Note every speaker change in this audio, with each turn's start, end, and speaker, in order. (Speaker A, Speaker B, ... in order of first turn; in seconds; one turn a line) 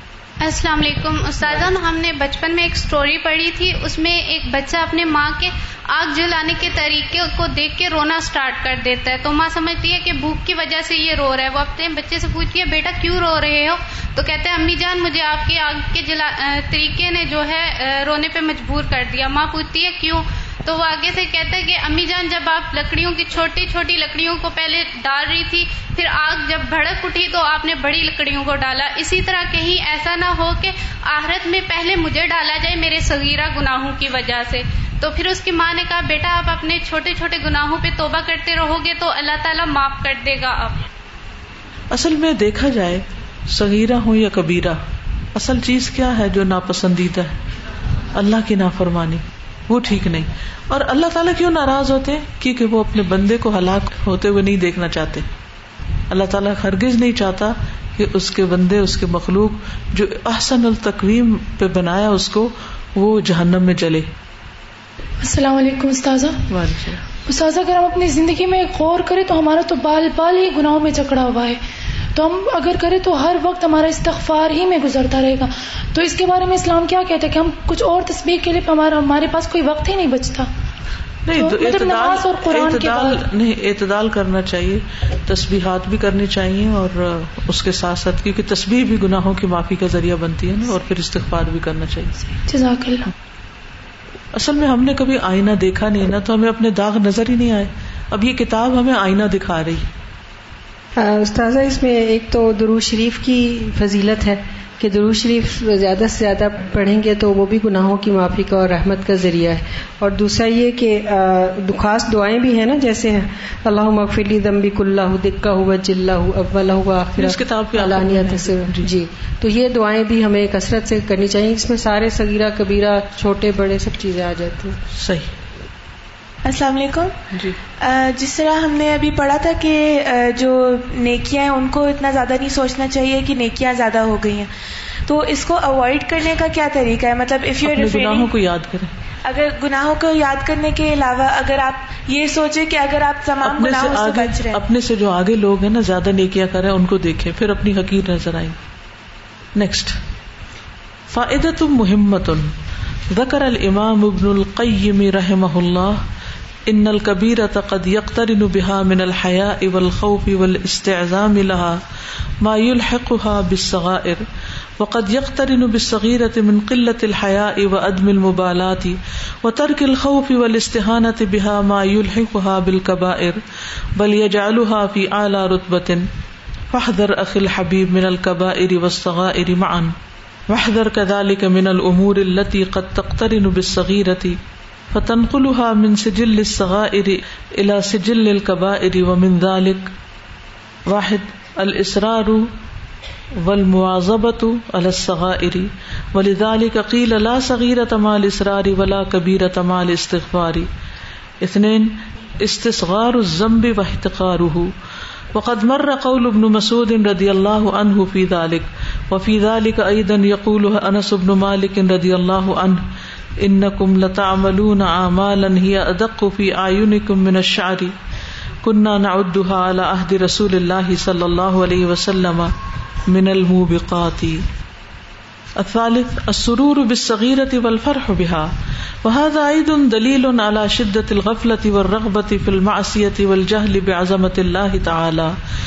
Speaker A: 0.4-40.8
Speaker B: 41.9-44.8
Speaker B: 45.3-47.4
Speaker B: 48.1-55.3
Speaker B: 56.1-64.1
Speaker C: 65.2-66.4
Speaker B: 66.5-67.0
Speaker C: 67.3-71.6
Speaker C: 72.1-80.5
Speaker B: 81.2-92.1
Speaker C: 81.3-83.2
Speaker C: 92.5-93.1
Speaker B: 94.3-99.9
Speaker D: 101.0-124.8
Speaker B: 117.2-118.9
Speaker B: 125.0-125.3
Speaker E: 126.4-127.2
Speaker B: 127.3-127.6
Speaker E: 127.8-134.5
Speaker E: 135.1-138.3
Speaker B: 137.6-138.9
Speaker E: 139.2-144.6
Speaker B: 143.4-148.6
Speaker B: 149.6-149.9
Speaker B: 151.1-152.5
Speaker B: 153.1-156.0
Speaker B: 156.7-161.8
Speaker B: 162.4-164.2
Speaker B: 164.8-173.4
Speaker B: 173.9-176.1
Speaker B: 176.7-179.9
Speaker B: 180.5-184.4
Speaker B: 184.9-189.9
Speaker B: 190.9-192.5
Speaker B: 193.4-200.7
Speaker B: 201.4-204.7
Speaker B: 205.3-212.9
Speaker B: 213.4-217.9
Speaker B: 218.6-222.5
Speaker B: 223.1-224.4
Speaker B: 225.6-228.5
Speaker B: 229.0-235.3